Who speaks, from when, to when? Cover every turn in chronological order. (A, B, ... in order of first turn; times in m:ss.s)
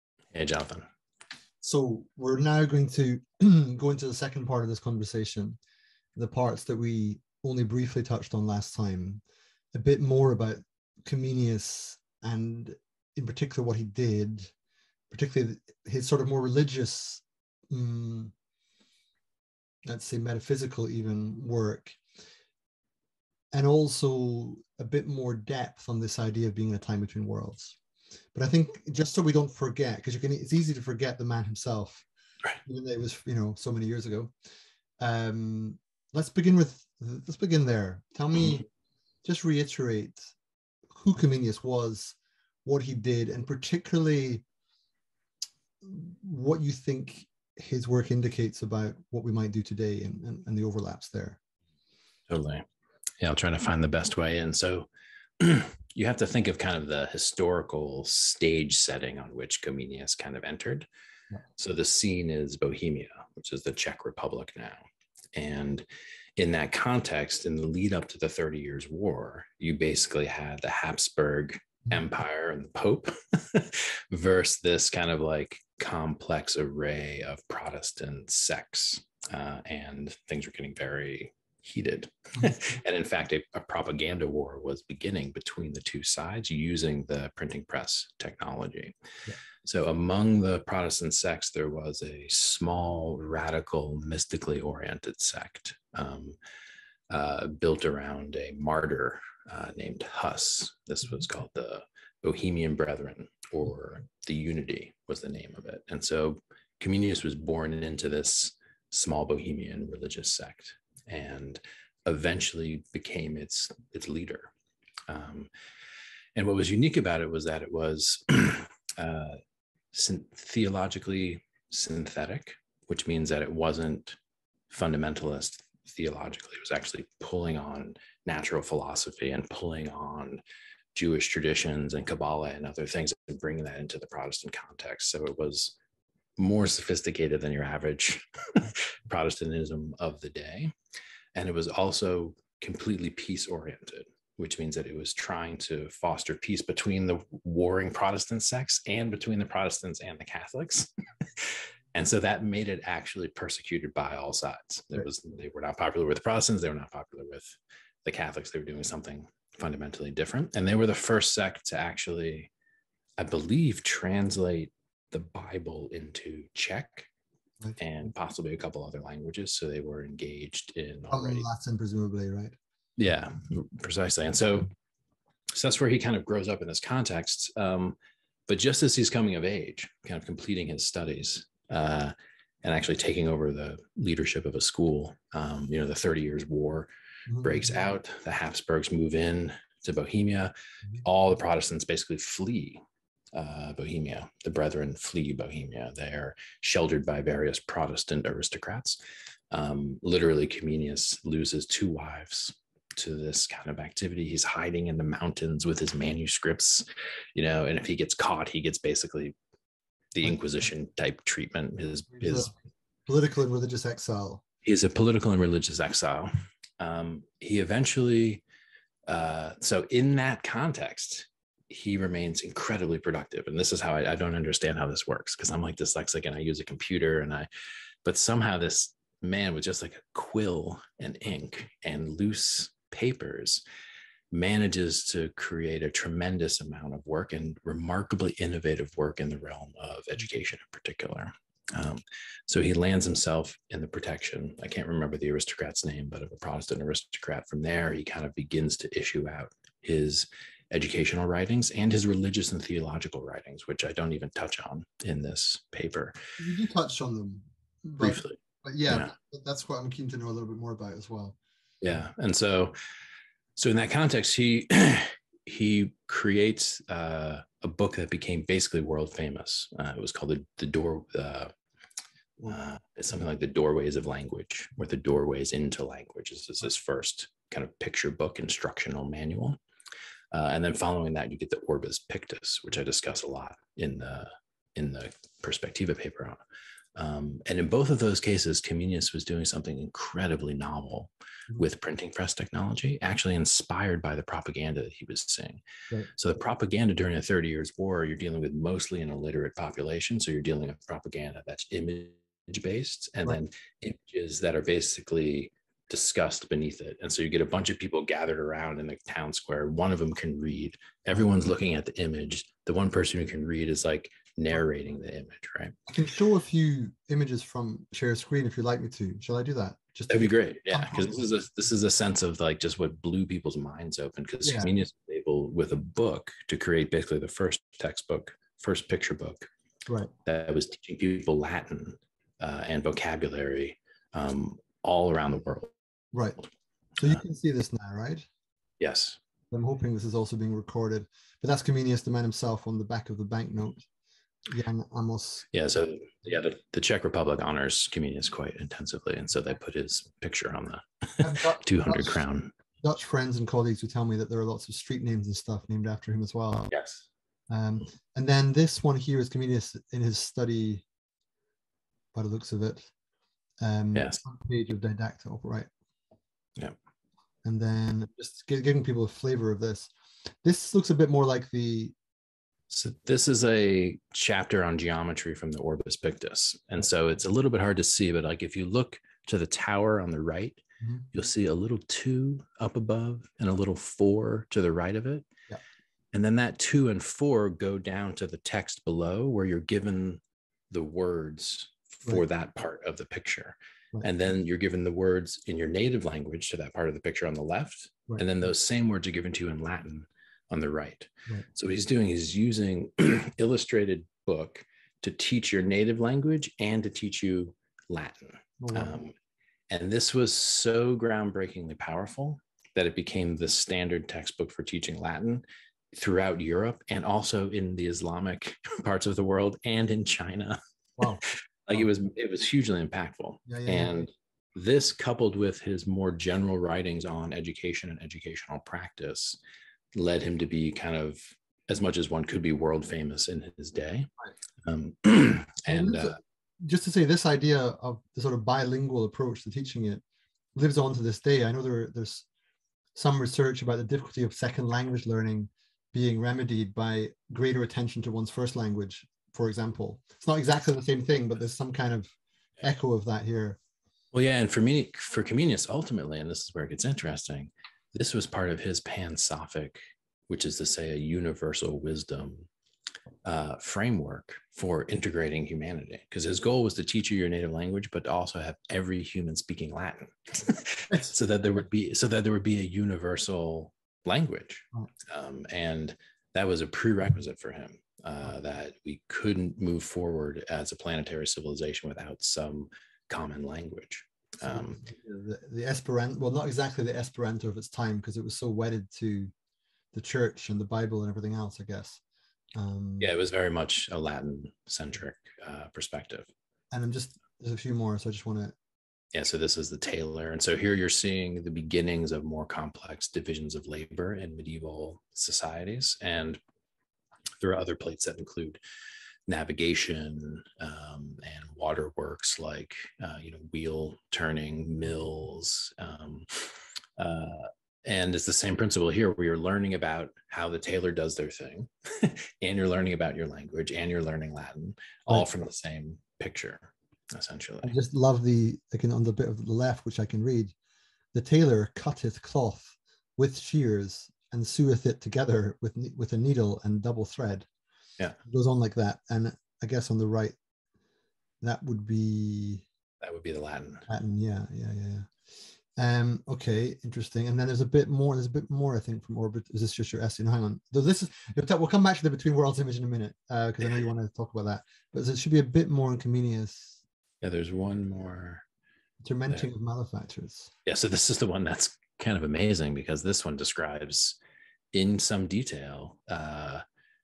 0:00.3-0:00.9 A
0:01.6-0:05.6 B
0:06.2-0:09.2 B
0:09.7-0:14.5 B
0:15.1-0:18.3 B
0:19.8-0:22.0 B
0:23.5-0:27.8 B
0:28.3-0:32.0 B
0:32.6-0:34.3 B
0:35.0-0:38.6 B
0:39.2-0:40.3 B
0:40.9-0:44.4 B
0:45.8-0:51.4 B
0:52.3-0:52.6 A
0:53.2-1:00.9 A
1:01.6-1:05.8 A
1:06.4-1:28.9 A
1:29.6-1:36.4 A
1:37.1-1:54.5 A
1:55.1-1:55.5 A
1:56.3-1:59.4 A
1:59.9-2:04.2 A
2:04.7-2:10.4 A
2:10.9-2:15.8 A
2:16.4-2:20.7 A
2:21.3-2:42.5 A
2:43.2-2:47.1 A
2:47.8-2:51.5 A
2:51.1-2:52.5 B
2:53.0-2:54.7 A
2:55.5-3:06.9 A
3:07.3-3:07.6 B
3:07.4-3:12.8 A
3:13.3-3:19.0 A
3:19.5-3:29.4 A
3:30.1-3:32.5 A
3:32.2-3:32.5 B
3:33.1-3:34.4 B
3:34.6-3:38.4 A
3:39.1-3:47.5 A
3:48.0-3:53.6 A
3:54.3-4:16.1 A
4:16.4-4:21.4 B
4:18.0-4:19.1 A
4:21.8-4:22.7 A
4:23.6-4:31.5 A
4:32.4-4:39.6 A
4:40.3-4:46.4 A
4:46.9-4:55.6 A
4:56.1-5:15.7 A
5:15.9-5:21.4 B
5:20.1-5:29.5 A
5:24.4-5:24.7 B
5:30.2-5:35.7 A
5:36.1-5:36.4 B
5:37.0-5:38.2 B
5:38.8-5:39.2 A
5:39.5-5:43.8 B
5:44.5-5:45.4 B
5:45.5-5:52.5 A
5:51.2-5:52.2 B
5:52.8-5:56.7 B
5:56.7-5:57.0 A
5:57.5-6:00.8 B
6:02.1-6:02.9 B
6:03.6-6:05.7 B
6:07.4-6:09.9 B
6:10.4-6:11.9 B
6:12.7-6:25.3 A
6:26.1-6:49.1 A
6:48.6-6:49.0 B
6:49.7-7:00.6 A
7:01.2-7:09.4 A
7:03.5-7:04.1 B
7:09.9-7:14.1 A
7:14.6-7:16.2 A
7:15.7-7:20.0 B
7:20.5-7:22.2 B
7:22.9-7:33.6 B
7:34.1-7:42.5 A
7:43.2-8:04.8 A
8:04.4-8:09.3 B
8:09.9-8:12.0 B
8:12.5-8:13.1 B
8:13.0-8:16.3 A
8:16.7-8:18.5 B
8:19.1-8:26.4 A
8:27.4-8:28.6 A
8:29.3-8:47.8 A
8:47.6-8:50.5 B
8:51.1-8:57.5 B
8:58.2-9:00.3 B
9:01.4-9:02.6 B
9:03.0-9:03.9 A
9:03.9-9:05.1 B
9:05.8-9:16.8 B
9:17.2-9:18.4 A
9:19.0-9:20.5 B
9:20.6-9:24.2 A
9:24.7-9:26.6 A